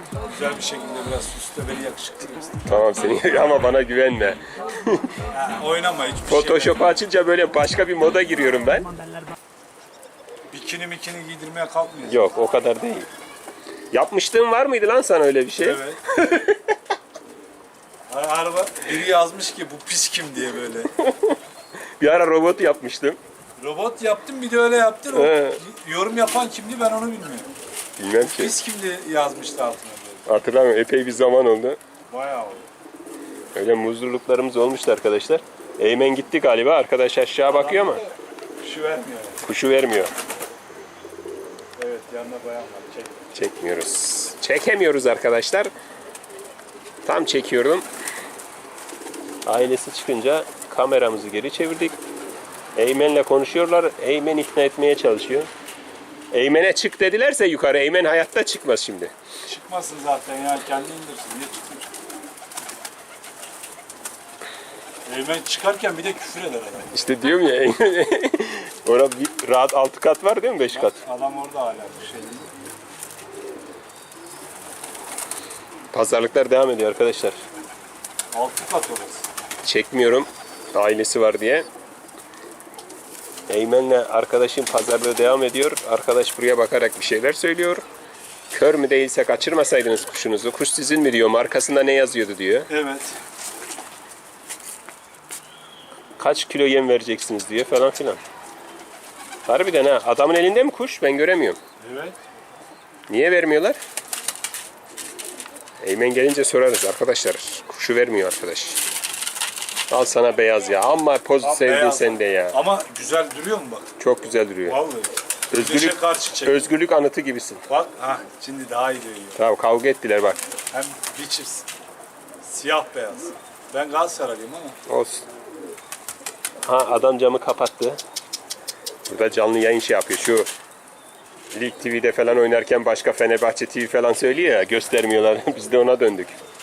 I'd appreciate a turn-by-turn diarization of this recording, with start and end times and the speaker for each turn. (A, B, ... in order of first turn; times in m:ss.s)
0:00.3-0:02.6 A
0:02.6-0:05.1 B
0:05.3-0:07.0 A
0:06.3-0:08.9 B
0:10.5-0:12.3 A
0:12.1-0:13.1 B
0:13.9-0:16.7 B
0:15.6-0:16.0 A
0:18.1-0:20.9 A
0:21.0-0:21.4 B
0:22.0-0:23.2 B
0:23.6-0:27.5 A
0:25.1-0:25.6 B
0:28.0-0:28.6 B
0:28.2-0:30.2 A
0:30.3-0:31.8 B
0:32.1-0:32.7 A
0:33.6-0:38.0 B
0:37.4-0:39.4 A
0:39.4-0:40.1 B
0:41.8-0:43.3 A
0:43.3-0:45.7 B
0:47.0-0:47.9 B
0:49.4-0:52.0 B
0:52.8-0:55.5 B
0:56.3-0:59.1 B
0:59.5-1:02.0 A
1:05.1-1:07.0 A
1:06.9-1:11.0 B
1:10.7-1:12.5 A
1:15.9-1:17.4 B
1:18.3-1:19.3 A
1:19.6-1:21.7 B
1:23.5-1:27.8 B
1:28.5-1:32.7 B
1:32.7-1:33.2 A
1:36.2-1:38.2 B
1:39.5-1:41.6 B
1:41.8-1:42.2 A
1:43.1-1:43.8 B
1:45.8-1:48.8 B
1:49.9-1:52.6 B
1:51.4-1:53.9 A
1:54.0-1:54.8 B
1:54.7-1:56.6 A
1:55.5-1:57.6 B
1:57.7-1:59.4 A
1:59.4-2:00.4 B
2:00.7-2:01.7 A
2:02.4-2:04.8 A
2:04.9-2:05.3 B
2:06.6-2:08.0 B
2:09.1-2:10.5 B
2:11.5-2:16.4 B